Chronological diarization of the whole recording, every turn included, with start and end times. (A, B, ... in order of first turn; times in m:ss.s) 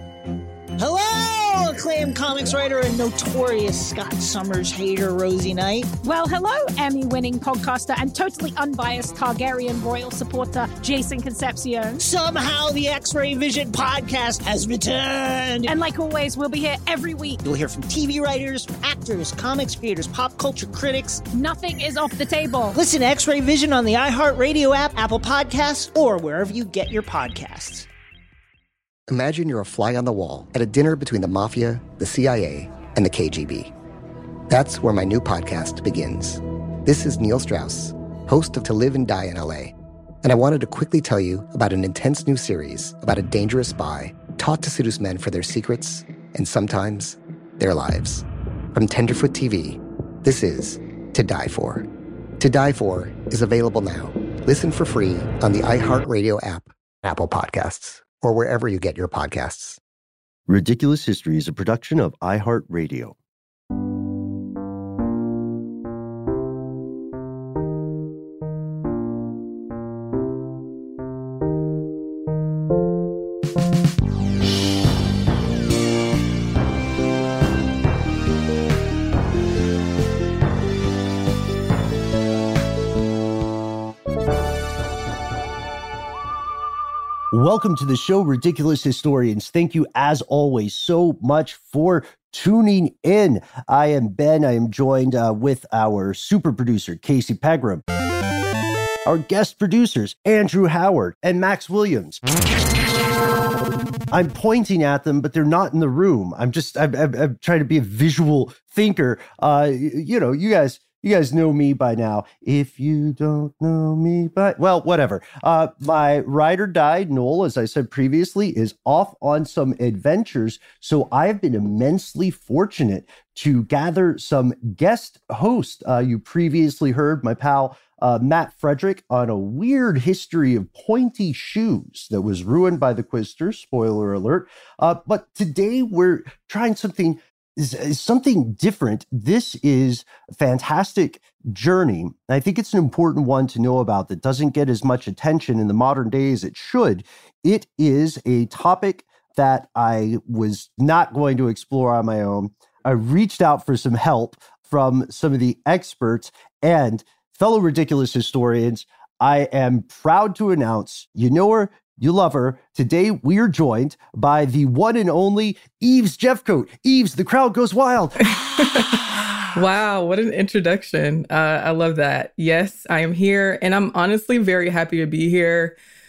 0:00.8-0:05.9 A
0:06.0-0:12.0 B
0:12.0-0:15.7 A
0:15.6-0:17.4 B
0:17.4-0:21.2 A
0:21.3-0:22.7 B
0:22.7-0:27.9 A
0:29.1-0:33.7 C
0:34.5-0:51.9 C
0:52.4-0:59.8 C
1:00.5-1:03.2 D
1:27.3-1:37.8 D
1:39.0-1:42.2 D
1:44.1-2:49.4 D
2:48.3-2:49.0 E
2:49.5-2:55.8 E